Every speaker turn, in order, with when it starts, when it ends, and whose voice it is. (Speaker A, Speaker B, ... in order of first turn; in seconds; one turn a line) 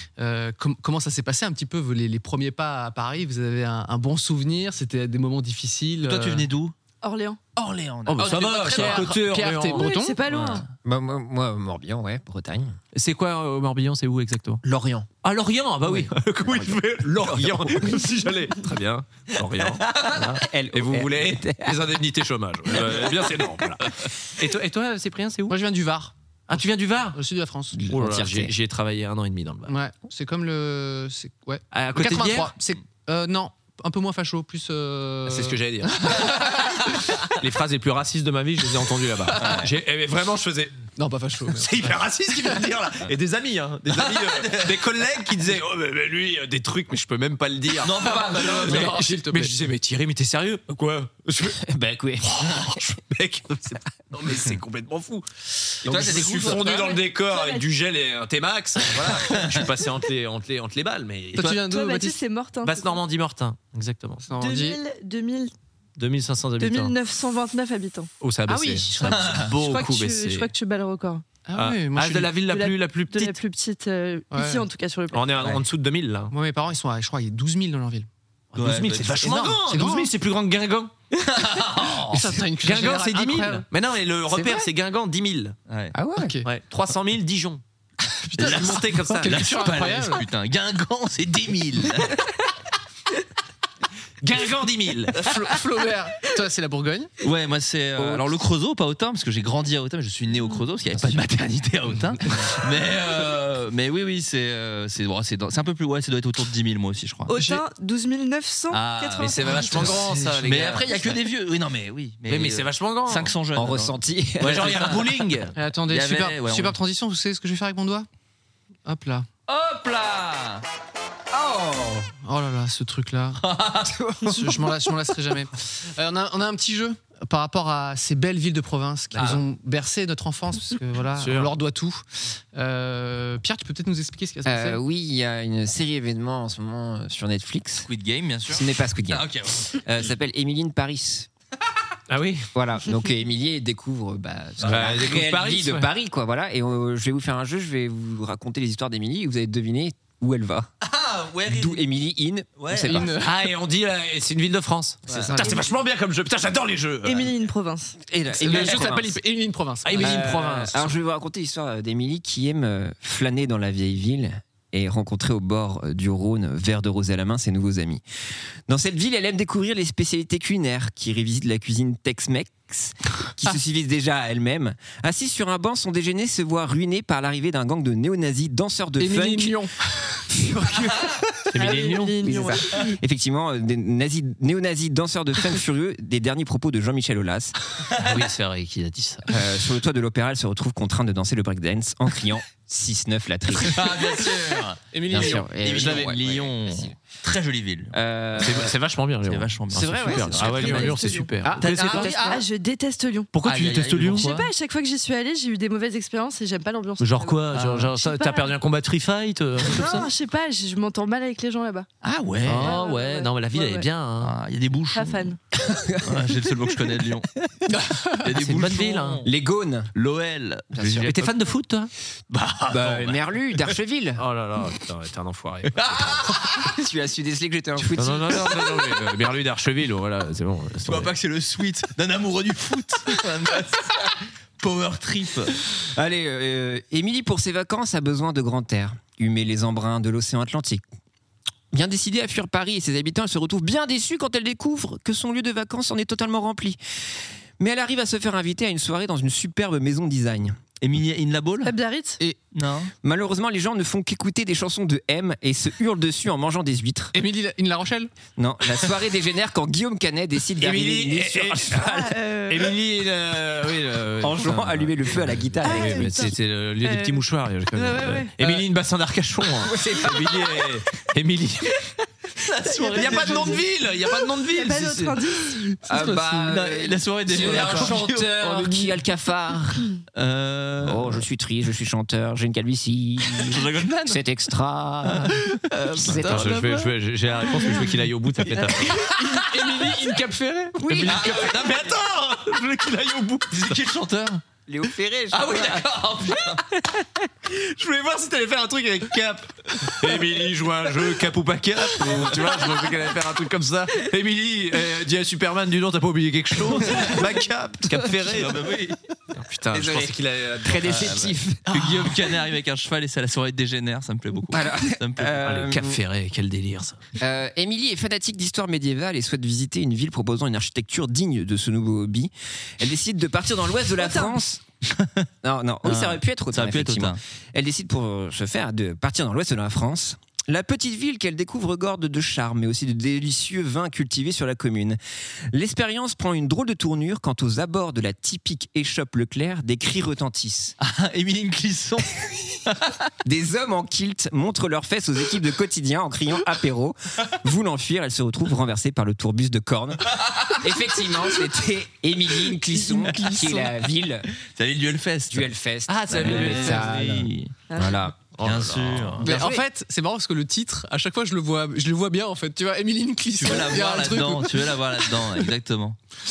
Speaker A: 0.2-6.5
Speaker B: 6.0-6.7
Speaker C: 7.0-7.4
Speaker B: 7.5-9.2
Speaker A: 8.1-10.2
Speaker D: 8.1-9.9
Speaker C: 9.7-10.7
Speaker E: 10.3-12.8
Speaker B: 10.3-10.6
Speaker D: 12.9-14.6
Speaker E: 14.6-15.1
Speaker D: 15.2-25.6
Speaker E: 15.9-16.7
Speaker E: 17.3-17.9
Speaker E: 20.0-21.8
Speaker A: 25.5-27.8
Speaker D: 26.5-27.2
Speaker E: 27.7-28.5
Speaker D: 27.9-29.7
Speaker A: 29.7-36.8
Speaker D: 31.7-32.5
Speaker D: 35.2-40.8
Speaker B: 39.4-39.7
Speaker A: 41.0-41.9
Speaker D: 41.5-51.6
Speaker B: 44.0-44.8
Speaker B: 47.8-49.0
Speaker A: 48.0-49.6
Speaker E: 51.6-52.8
Speaker D: 52.2-61.5
Speaker B: 55.8-56.9
Speaker C: 56.4-57.6
Speaker B: 59.1-59.6
Speaker A: 61.3-62.2
Speaker C: 61.4-63.0
Speaker D: 62.6-64.2
Speaker A: 64.2-64.8
Speaker C: 64.4-65.5
Speaker D: 66.0-66.9
Speaker C: 66.6-71.2
Speaker D: 68.2-70.5
Speaker B: 69.1-69.5
Speaker A: 71.5-72.3
Speaker D: 71.5-73.4
Speaker C: 72.5-75.5
Speaker A: 74.3-74.6
Speaker D: 75.1-76.3
Speaker A: 76.3-78.1
Speaker D: 78.5-80.9
Speaker B: 78.5-79.3
Speaker A: 79.1-80.1
Speaker B: 81.2-82.4
Speaker A: 82.1-83.7
Speaker D: 82.6-85.5
Speaker E: 84.3-84.6
Speaker B: 85.7-85.9
Speaker E: 85.9-86.3
Speaker A: 86.2-86.5
Speaker D: 86.4-87.6
Speaker A: 88.2-90.2
Speaker B: 88.4-92.2
Speaker D: 88.4-89.6
Speaker D: 94.2-95.3
Speaker A: 95.2-97.1
Speaker B: 97.2-107.4
Speaker E: 98.0-98.2
Speaker C: 107.3-110.0
Speaker B: 108.7-115.0
Speaker D: 109.2-111.2
Speaker A: 109.8-110.4
Speaker D: 112.3-113.3
Speaker E: 113.5-114.8
Speaker D: 114.4-115.5
Speaker A: 115.5-118.1
Speaker B: 115.9-116.8
Speaker A: 118.8-119.3
Speaker B: 119.5-120.6
Speaker E: 121.3-122.1
Speaker A: 122.2-123.4
Speaker B: 123.4-124.1
Speaker A: 124.2-134.8
Speaker B: 129.1-129.4
Speaker D: 131.2-131.5
Speaker E: 134.4-137.9
Speaker B: 137.8-139.8
Speaker E: 138.5-141.3
Speaker D: 142.1-142.5
Speaker E: 142.5-150.7
Speaker D: 144.6-145.9
Speaker B: 150.8-151.8
Speaker E: 151.5-153.1
Speaker B: 152.6-153.1
Speaker A: 152.7-153.4
Speaker D: 153.2-157.3
Speaker B: 155.1-155.3
Speaker A: 155.3-155.6
Speaker C: 157.0-158.0
Speaker E: 158.1-159.2
Speaker A: 158.3-160.4
Speaker D: 159.8-160.9
Speaker E: 159.9-168.0
Speaker E: 168.7-179.6
Speaker A: 179.0-180.2
Speaker E: 180.3-181.1
Speaker D: 181.5-182.2
Speaker C: 181.6-182.9
Speaker E: 182.2-187.5
Speaker B: 187.9-188.2
Speaker D: 188.0-189.4
Speaker E: 189.3-194.1
Speaker B: 193.6-197.9
Speaker A: 194.9-196.1
Speaker E: 195.1-196.9
Speaker E: 197.9-198.7
Speaker D: 198.4-202.2
Speaker B: 199.2-201.0
Speaker E: 199.7-201.8
Speaker C: 200.4-201.3
Speaker A: 201.4-202.4
Speaker C: 201.8-203.3
Speaker D: 203.3-204.3
Speaker B: 203.4-204.5
Speaker C: 204.1-208.5
Speaker D: 207.0-210.0
Speaker B: 207.5-207.9
Speaker C: 209.6-211.9
Speaker B: 212.0-212.8
Speaker D: 212.4-214.3
Speaker C: 212.4-213.9
Speaker B: 214.2-215.3
Speaker C: 214.9-215.4
Speaker E: 215.7-216.1
Speaker B: 216.0-217.3
Speaker B: 218.2-219.3
Speaker D: 218.3-219.2
Speaker E: 219.2-219.9
Speaker B: 219.9-221.3
Speaker E: 220.7-221.1
Speaker D: 221.0-221.9
Speaker B: 222.3-223.2
Speaker E: 222.7-224.2
Speaker D: 224.2-226.4
Speaker B: 225.8-226.7
Speaker E: 226.6-228.5
Speaker D: 227.9-231.1
Speaker B: 230.8-235.6
Speaker E: 235.9-240.8
Speaker E: 241.7-246.8
Speaker E: 247.6-250.6
Speaker B: 250.8-251.7
Speaker C: 251.6-252.2
Speaker B: 252.5-252.9
Speaker E: 253.0-257.1
Speaker A: 257.1-258.1
Speaker E: 258.4-261.8
Speaker D: 260.6-271.9
Speaker C: 261.8-262.7
Speaker E: 264.2-266.3
Speaker C: 265.6-268.6
Speaker E: 269.6-270.6
Speaker B: 272.4-273.6
Speaker C: 272.4-273.6
Speaker D: 272.9-275.4
Speaker C: 274.5-275.7
Speaker E: 275.9-279.9
Speaker A: 275.9-276.3
Speaker B: 276.4-278.9
Speaker A: 277.5-277.8
Speaker D: 277.6-277.9
Speaker B: 280.1-281.2
Speaker E: 280.8-286.6
Speaker B: 283.3-284.2
Speaker B: 285.1-286.9
Speaker D: 286.0-289.1
Speaker A: 288.9-291.6
Speaker D: 290.9-293.8
Speaker B: 291.0-291.9
Speaker B: 293.5-294.4
Speaker E: 294.7-295.9
Speaker B: 295.3-296.7
Speaker D: 297.4-308.6
Speaker B: 302.1-302.4
Speaker B: 308.2-309.0
Speaker D: 309.3-311.1
Speaker E: 309.7-312.0
Speaker B: 310.9-315.4
Speaker E: 314.5-316.0
Speaker D: 315.4-317.0
Speaker E: 317.2-324.6
Speaker C: 324.0-324.3
Speaker E: 325.4-335.0
Speaker B: 325.8-327.2
Speaker E: 335.5-340.7
Speaker B: 340.8-343.1
Speaker E: 343.2-354.3
Speaker B: 350.1-350.6
Speaker A: 352.7-353.6
Speaker B: 353.1-353.5
Speaker B: 354.3-355.5
Speaker E: 355.3-358.2
Speaker D: 355.9-357.2
Speaker B: 356.1-357.5
Speaker C: 357.7-358.0
Speaker D: 358.4-359.2
Speaker B: 358.4-359.3
Speaker E: 359.2-359.6
Speaker A: 359.2-365.4
Speaker B: 363.4-366.0